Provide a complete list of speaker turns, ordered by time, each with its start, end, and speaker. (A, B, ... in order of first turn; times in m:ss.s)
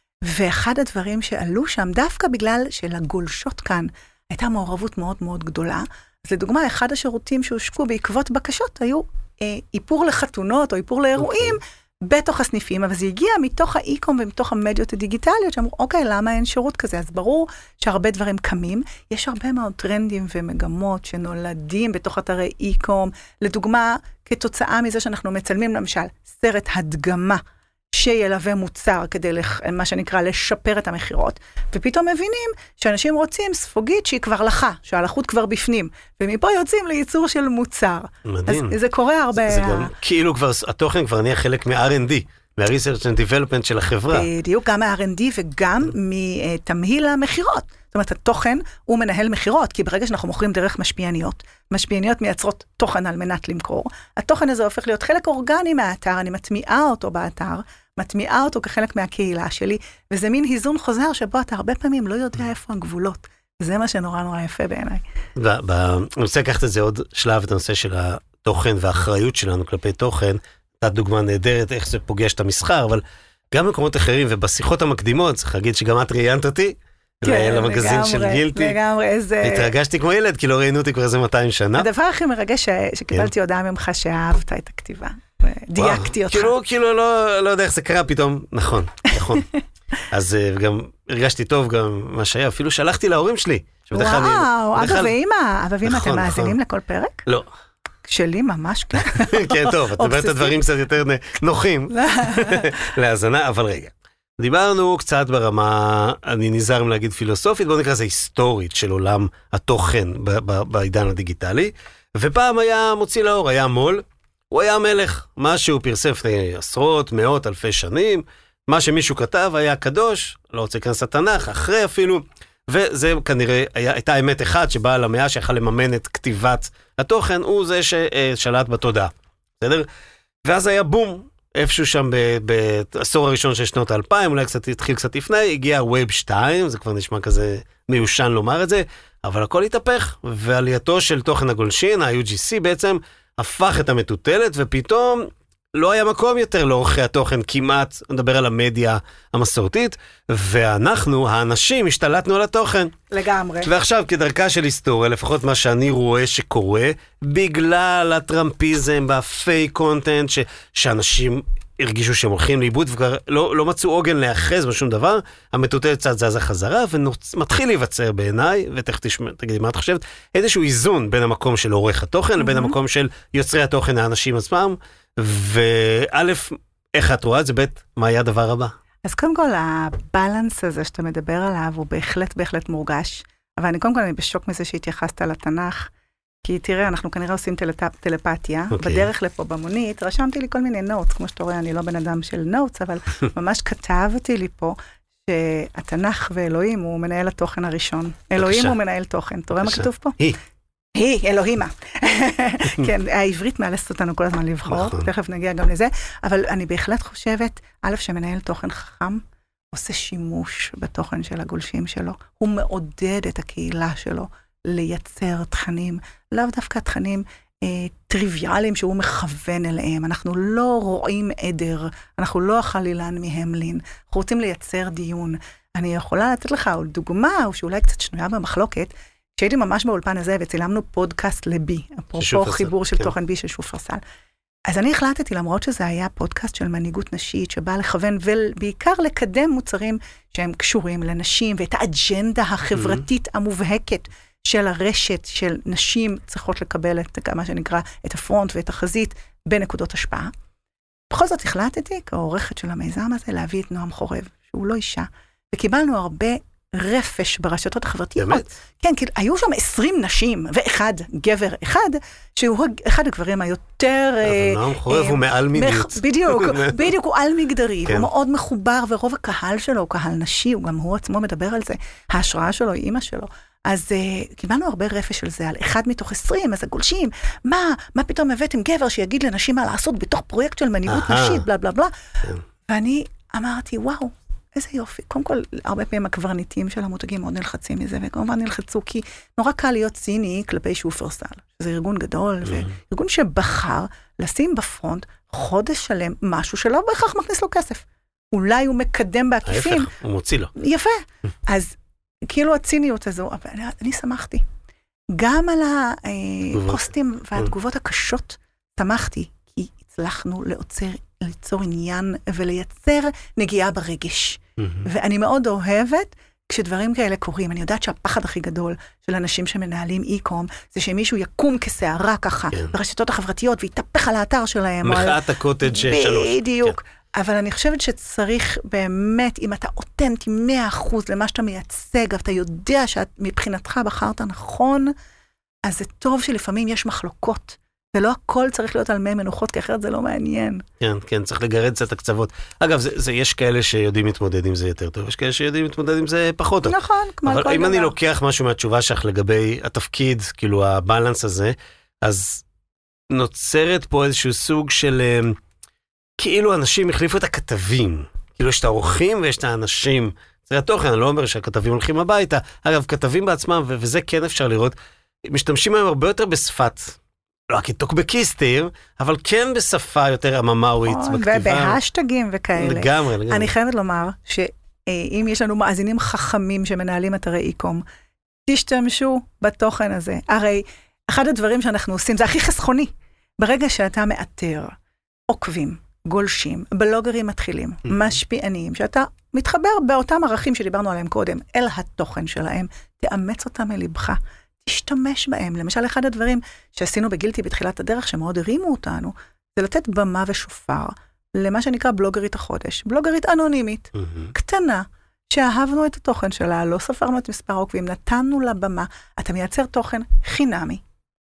0:00.2-0:27.4 A
0:27.9-0:39.9 A
0:38.2-0:38.8 B
0:39.4-0:44.3 B
0:44.1-1:05.0 A
1:05.4-1:18.8 B
1:17.2-1:19.7 A
1:19.4-1:21.9 B
1:21.8-1:26.5 A
1:25.8-1:29.4 B
1:29.3-1:29.6 A
1:30.1-1:35.1 B
1:33.9-1:37.2 A
1:35.8-1:36.5 B
1:38.0-1:40.6 A
1:39.1-2:09.9 B
1:41.9-1:42.7 A
2:10.4-2:32.9 B
2:33.1-2:33.7 A
2:33.6-2:58.7 B
2:52.4-2:52.7 A
2:59.0-3:05.9 A
3:06.4-3:20.2 A
3:08.7-3:09.1 B
3:18.4-3:18.7 B
3:19.6-3:20.4 B
3:20.9-3:54.0 A
3:24.7-3:25.1 B
3:52.2-3:53.1 B
3:54.7-4:10.3 A
4:02.7-4:03.0 B
4:11.1-4:41.9 A
4:18.2-4:18.5 B
4:24.2-4:26.8 B
4:40.9-4:41.4 B
4:42.7-4:59.9 A
4:59.4-5:00.5 B
5:00.5-5:01.8 A
5:02.3-5:04.4 A
5:05.1-5:34.9 A
5:06.5-5:06.8 B
5:14.6-5:14.8 B
5:24.8-5:26.8 B
5:35.6-5:40.6 A
5:40.8-5:52.4 B
5:46.6-5:47.9 A
5:53.1-5:55.4 B
5:56.2-6:07.0 B
6:07.5-6:11.8 B
6:10.8-6:17.8 A
6:12.6-6:13.5 B
6:18.5-6:24.7 A
6:25.3-6:50.8 A
6:27.8-6:28.1 B
6:44.0-6:44.3 B